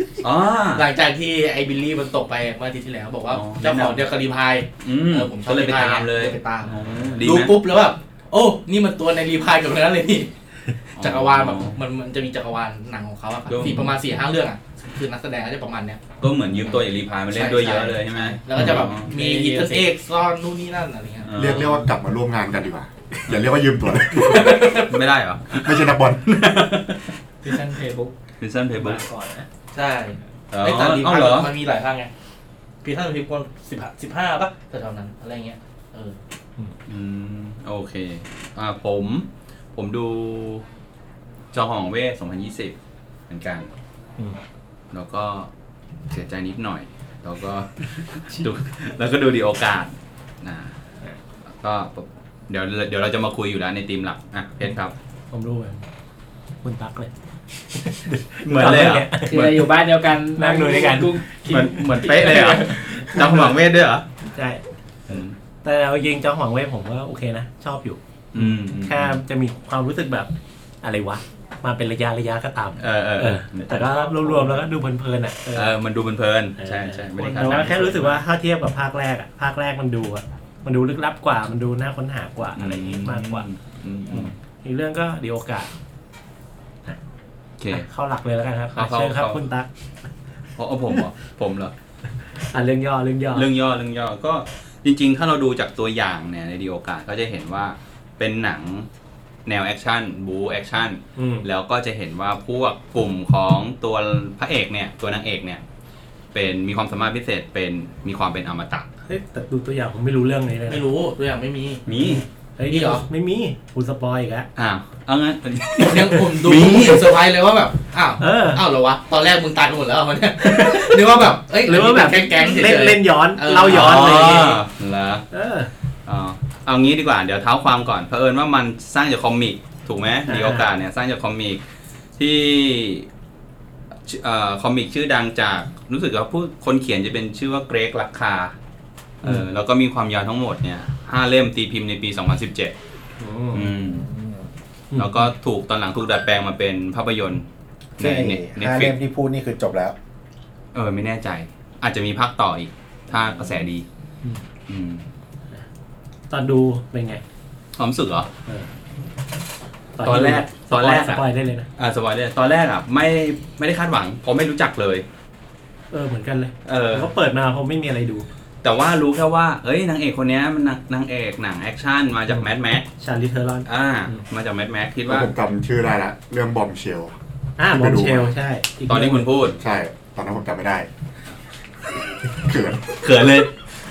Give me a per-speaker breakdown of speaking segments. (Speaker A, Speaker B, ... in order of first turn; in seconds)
Speaker A: 0.2-0.9, 3.3-4.0, 4.8-7.6, 10.9-11.8, 13.5-13.9, 16.2-19.1, 21.2-21.8, 24.5-27.1, 28.4-29.0, 30.5-31.5, 36.9-40.6, 41.5-42.8, 43.3-43.7, 44.9-45.5, 46.1-50.7, 51.6-54.9, 58.5-59.7, 61.4-64.0, 65.1-65.3, 68.3-69.2, 72.8-74.5, 75.5-78.2, 82.6-84.3, 87.6-87.8, 88.8-89.4, 90.6-91.7, 93.3-98.9, 99.5-105.6, 106.3-108.9, 111.9-112.2, 114.6-117.2, 123.6-125.2, 126.0-131.6, 132.2-133.1, 134.1-138.5, 139.2-142.7, 143.5-144.1, 145.0-147.4, 148.0-148.9, 150.7-153.8, 154.7-155.0, 157.8-158.3, 160.0-161.2, 161.8-165.0, 166.6-167.1, 168.6-172.8, 173.7-175.3, 178.9-179.6, 183.0-183.5
Speaker B: 0.7-10.3, 10.9-16.0, 16.6-21.3, 24.2-24.9, 29.7-32.1, 32.8-36.2, 110.7-111.8, 112.7-113.0, 115.8-124.4
Speaker C: 18.8-19.9, 27.4-28.1, 28.7-29.5, 59.3-63.2
Speaker D: 21.3-24.8, 25.5-26.5, 175.1-177.1, 177.7-178.3, 179.6-180.9, 182.3-183.0
Speaker E: 55.3-55.8, 56.6-57.1, 57.7-59.6, 60.4-61.2, 63.0-63.5, 64.2-64.6, 65.6-70.3, 70.8-75.7, 76.6-83.5, 84.1-85.7, 87.7-89.7, 92.5-93.5, 101.2-101.5, 109.1-110.8, 112.0-114.5, 118.2-118.6, 120.4-121.0, 121.6-124.6, 125.3-125.7, 130.3-130.6, 143.2-143.7, 144.9-145.3, 156.3-157.2, 160.0-161.7, 165.9-168.2, 173.0-174.2, 177.6-179.4
Speaker F: 143.7-144.5, 148.0-149.9